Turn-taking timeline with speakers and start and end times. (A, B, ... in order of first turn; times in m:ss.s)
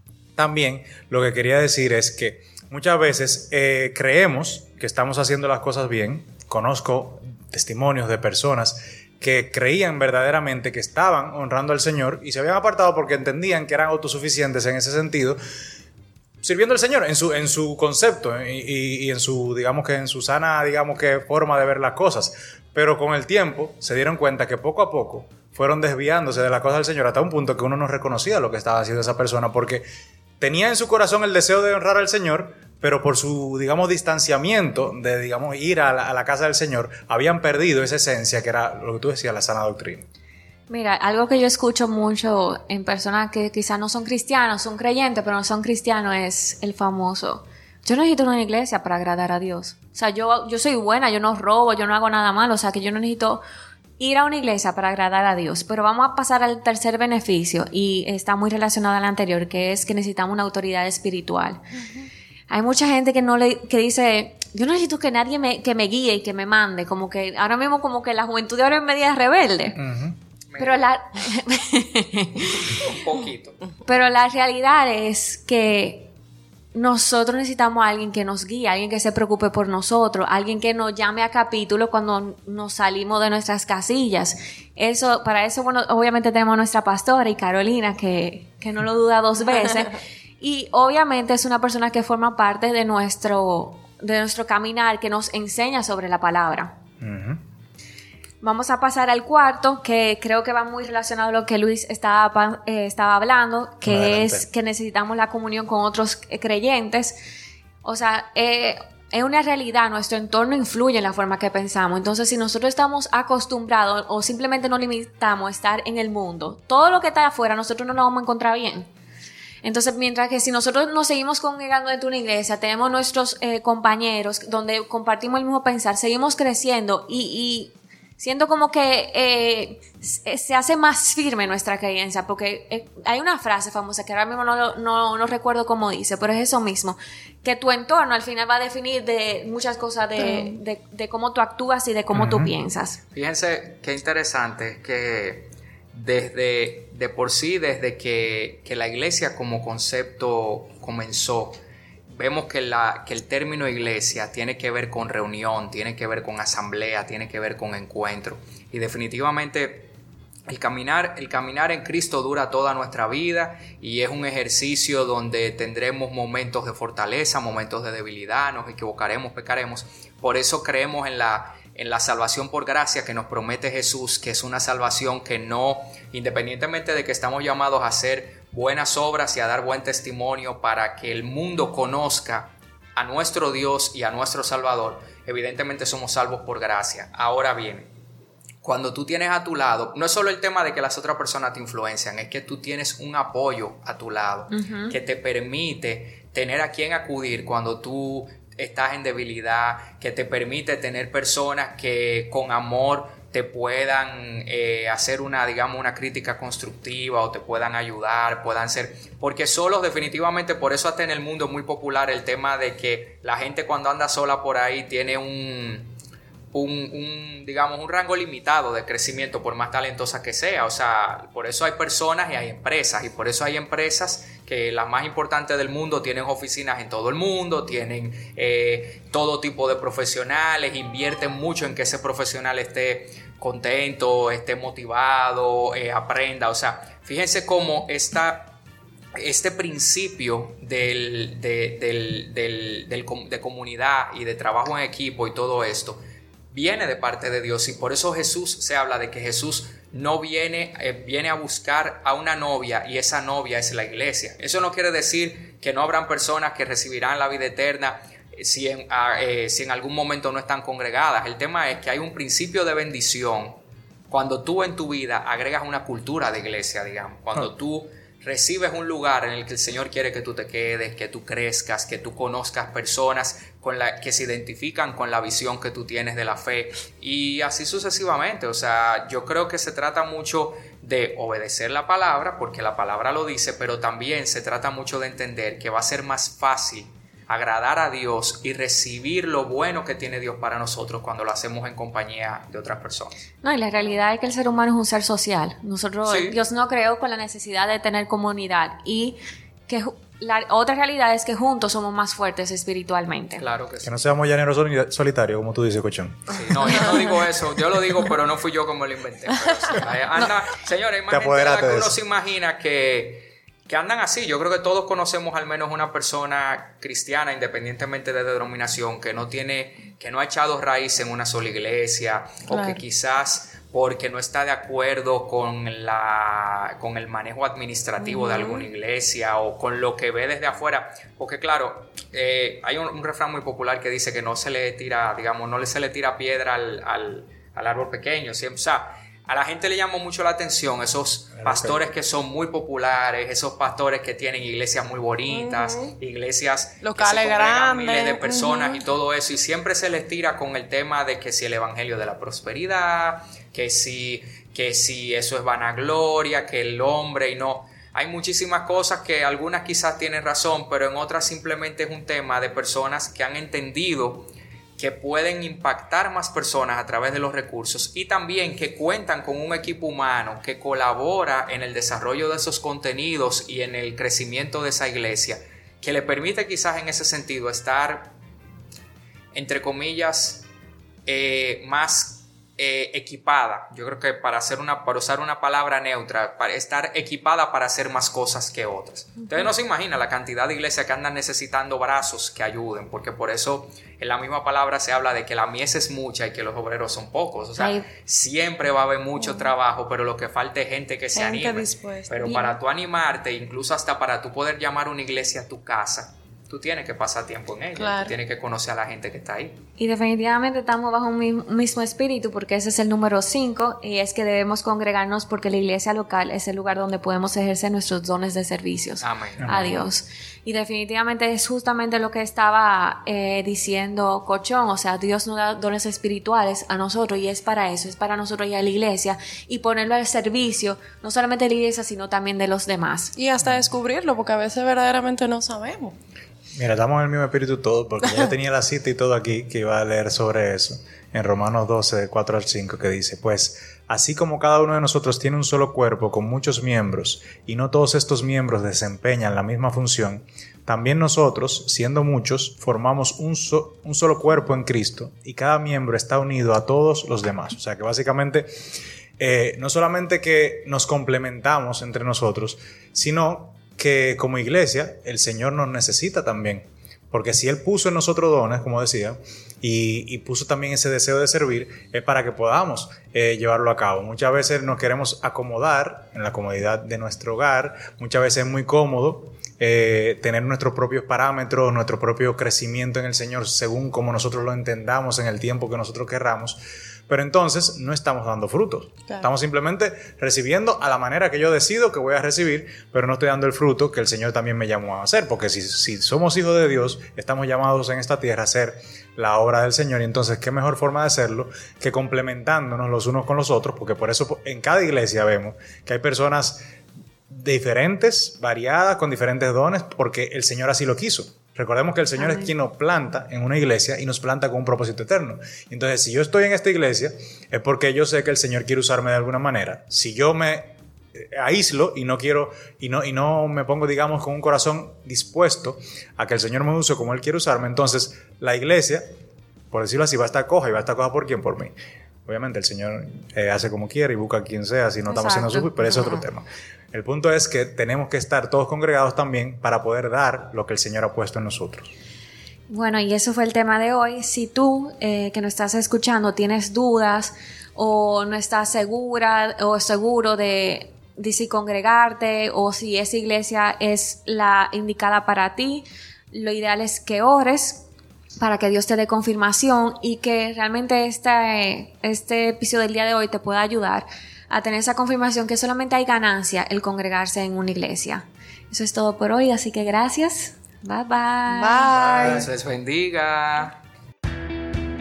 0:00.4-0:15.4 A
0:16.4-0:29.8 A
0:30.4-0:40.0 A
0:40.7-0:53.4 B
0:54.0-1:01.6 B
1:02.5-1:09.8 B
1:09.8-1:10.2 A
1:10.5-1:10.9 C
1:10.6-1:12.9 B
1:12.8-1:13.6 C
1:13.8-1:16.1 B
1:16.7-1:36.7 B
1:37.0-1:37.4 A
1:38.4-1:47.2 B
1:43.8-1:44.4 A
1:47.8-1:58.9 B
1:59.6-2:23.0 B
2:20.2-2:20.6 D
2:22.1-2:22.5 A
2:23.1-2:31.6 C
2:32.1-2:39.9 C
2:40.5-3:07.9 C
3:08.6-3:35.9 C
3:14.5-3:15.0 B
3:36.5-3:58.6 C
3:59.2-4:06.0 C
4:06.5-4:23.6 C
4:24.1-4:53.1 C
4:53.4-4:59.2 B
4:56.0-4:56.4 C
4:59.7-5:03.4 B
5:03.4-5:04.0 C
5:03.8-5:06.7 A
5:06.3-6:18.1 C
5:11.1-5:12.0 A
5:22.5-5:22.8 D
5:28.0-5:28.6 D
5:41.4-5:41.8 A
5:45.3-5:45.9 D
5:46.8-5:48.8 D
6:19.3-6:20.5 C
6:21.0-6:49.6 C
6:37.6-6:37.8 B
6:41.1-6:42.5 D
6:47.8-6:48.1 D
6:49.8-7:13.1 B
6:59.0-6:59.5 C
6:59.4-6:59.8 A
7:13.1-7:16.0 D
7:13.4-7:13.7 A
7:16.6-7:38.5 A
7:39.2-8:26.6 A
8:27.3-8:40.8 A
8:32.2-8:32.5 B
8:41.3-8:49.0 A
8:49.7-8:51.7 A
8:52.3-9:01.9 A
8:55.1-8:56.2 B
9:02.7-9:17.8 B
9:18.4-9:31.9 B
9:31.5-9:32.4 D
9:31.9-9:33.8 C